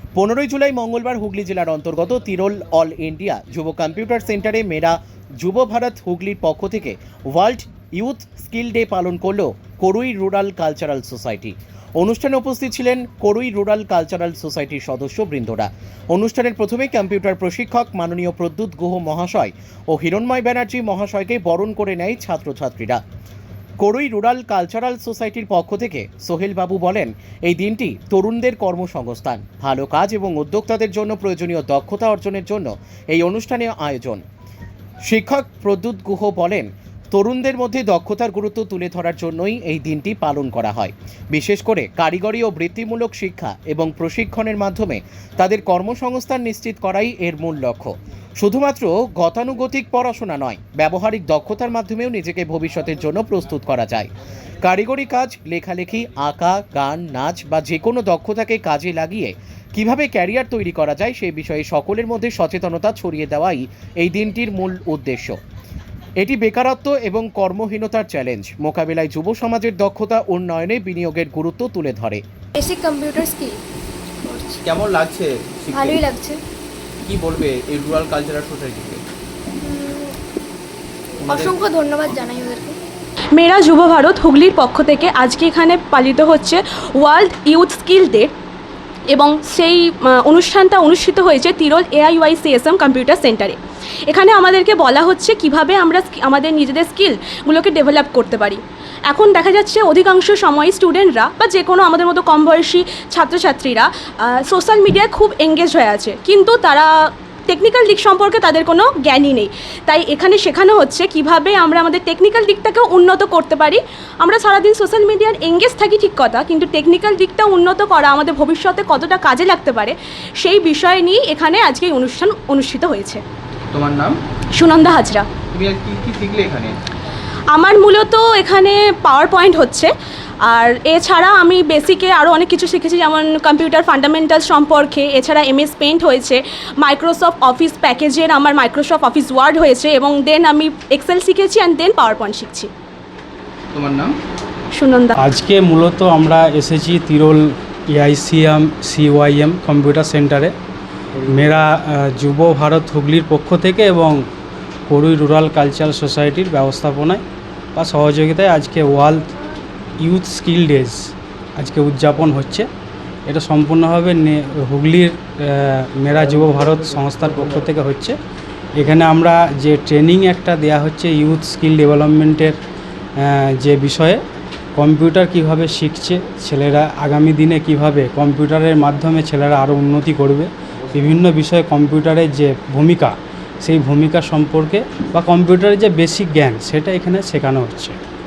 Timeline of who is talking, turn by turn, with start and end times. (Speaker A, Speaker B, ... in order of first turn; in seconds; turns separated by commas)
Speaker A: 0.2-23.0, Speaker A: 23.8-34.2, Speaker A: 35.1-65.4, Speaker A: 66.2-72.2, Speaker B: 72.6-73.6, Speaker C: 74.3-76.1, Speaker B: 75.7-76.4, Speaker C: 77.0-79.0, Speaker B: 79.6-80.1, Speaker C: 81.2-81.6, Speaker B: 81.3-82.8, Speaker D: 83.3-88.3, Speaker D: 89.1-93.6, Speaker D: 94.1-106.9, Speaker D: 107.5-123.2, Speaker C: 123.7-124.2, Speaker D: 124.6-125.3, Speaker C: 125.5-126.7, Speaker D: 127.5-129.9, Speaker D: 130.5-142.7, Speaker C: 143.7-144.1, Speaker D: 144.8-145.2, Speaker E: 145.2-150.5, Speaker E: 151.3-154.2, Speaker E: 154.9-157.2, Speaker E: 157.8-159.3, Speaker E: 160.0-161.0, Speaker E: 161.6-162.7, Speaker E: 163.3-168.2, Speaker E: 168.8-172.6, Speaker E: 173.2-174.2, Speaker E: 174.8-188.0